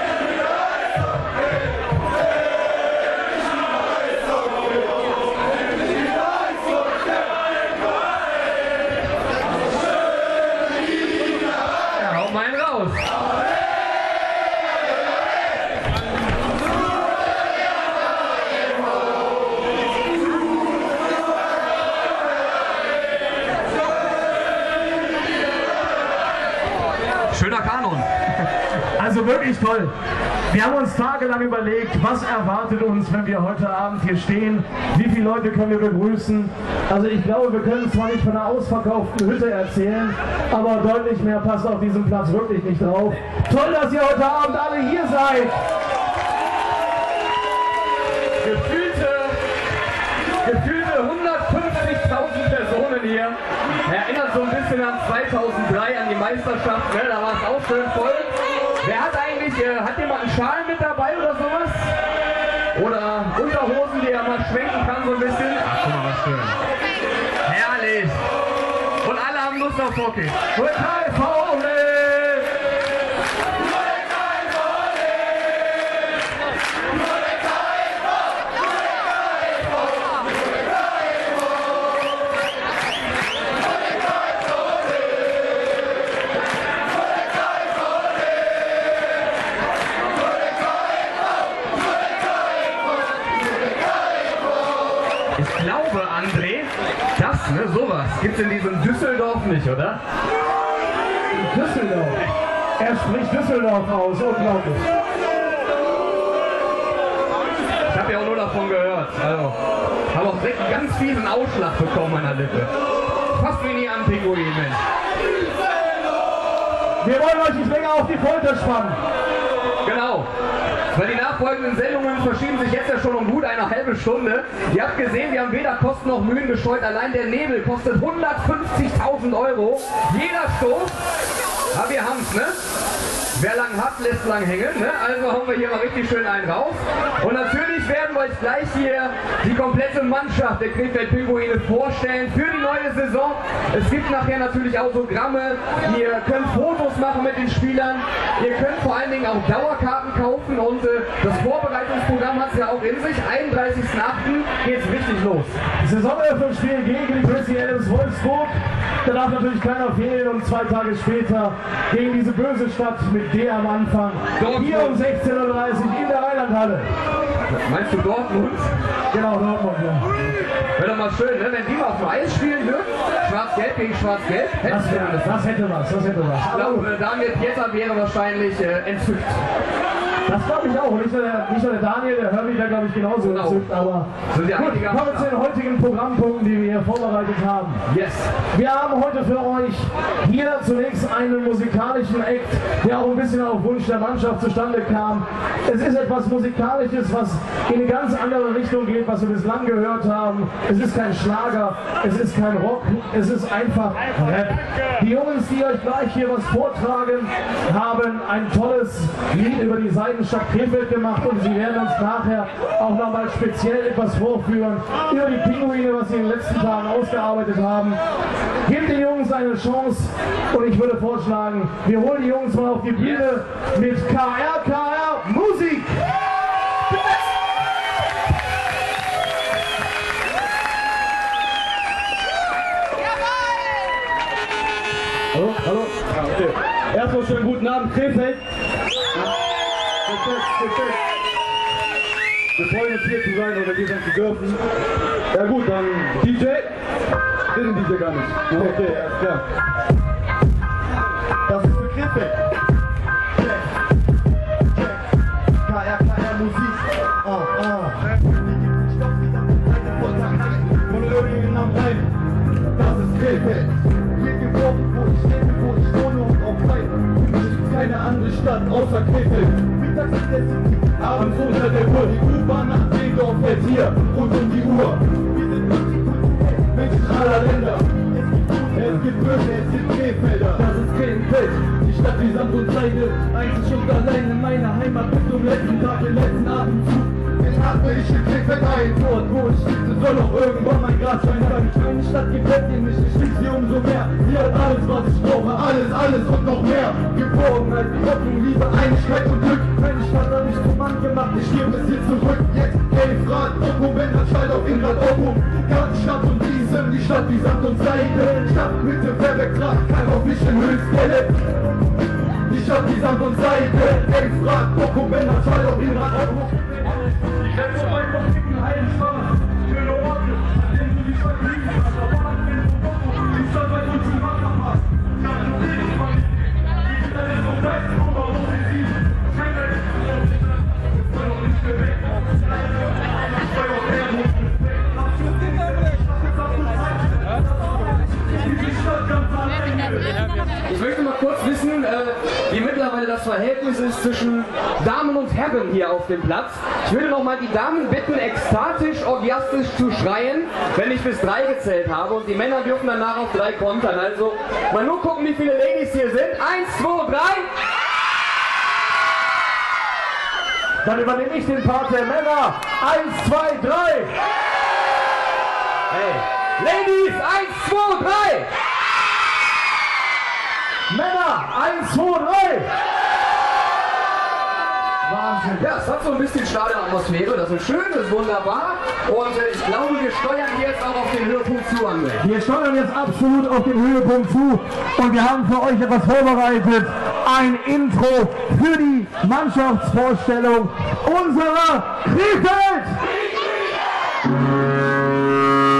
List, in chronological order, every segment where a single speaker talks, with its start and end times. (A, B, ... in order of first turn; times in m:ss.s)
0:11.9-0:13.1 A
0:27.3-0:28.1 A
0:29.0-0:29.9 B
0:30.5-0:45.6 B
0:48.4-0:49.4 A
0:50.4-1:02.0 A
1:02.7-1:06.6 A
1:07.4-1:08.3 A
1:09.0-1:10.4 A
1:10.5-1:12.5 B
1:35.3-1:40.0 A
1:41.4-1:42.3 B
1:42.8-1:44.9 B
1:47.9-1:49.6 A
1:50.1-1:52.7 A
1:53.3-1:54.8 A
1:57.0-1:59.0 B
1:59.8-2:00.3 A
2:00.9-2:11.0 A
2:11.7-2:12.6 A
2:13.3-2:35.6 A
2:35.8-2:46.9 B
2:44.4-2:45.0 A
2:47.4-2:48.7 A
2:49.1-2:50.1 B
2:50.7-2:55.4 A
2:54.6-2:56.9 B
2:56.4-2:59.4 A
3:00.2-3:07.8 B
3:03.2-3:03.7 A
3:04.3-3:05.3 A
3:07.9-3:08.3 A
3:08.5-3:38.0 B
3:38.6-3:46.1 B
3:42.9-3:43.3 A
3:55.4-3:55.8 C
3:56.4-3:58.2 C
3:57.0-3:58.3 D
4:00.1-4:00.6 C
4:02.7-4:03.6 C
4:03.5-4:04.5 D
4:05.3-4:06.5 D
4:07.5-4:08.6 D
4:08.4-4:09.3 C
4:11.5-4:12.3 C
4:15.6-4:22.1 C
4:22.7-4:40.7 C
4:40.7-4:41.1 D
4:41.6-4:43.6 C
4:43.9-4:45.9 D
4:44.2-5:11.4 C
4:51.9-4:52.3 D
5:12.4-5:16.8 C
5:17.8-5:18.5 B
5:20.5-5:21.5 D
5:23.2-5:24.7 C
5:25.4-5:25.9 C
5:27.1-5:28.6 C
5:31.2-5:31.9 C
5:33.2-5:35.3 C
5:36.4-5:37.1 C
5:38.4-5:40.0 C
5:40.6-5:57.5 A
6:00.8-6:04.1 B
6:05.9-6:08.5 A
6:10.9-6:12.7 B
6:15.0-6:15.7 B
6:15.6-6:22.2 A
6:22.2-6:33.0 B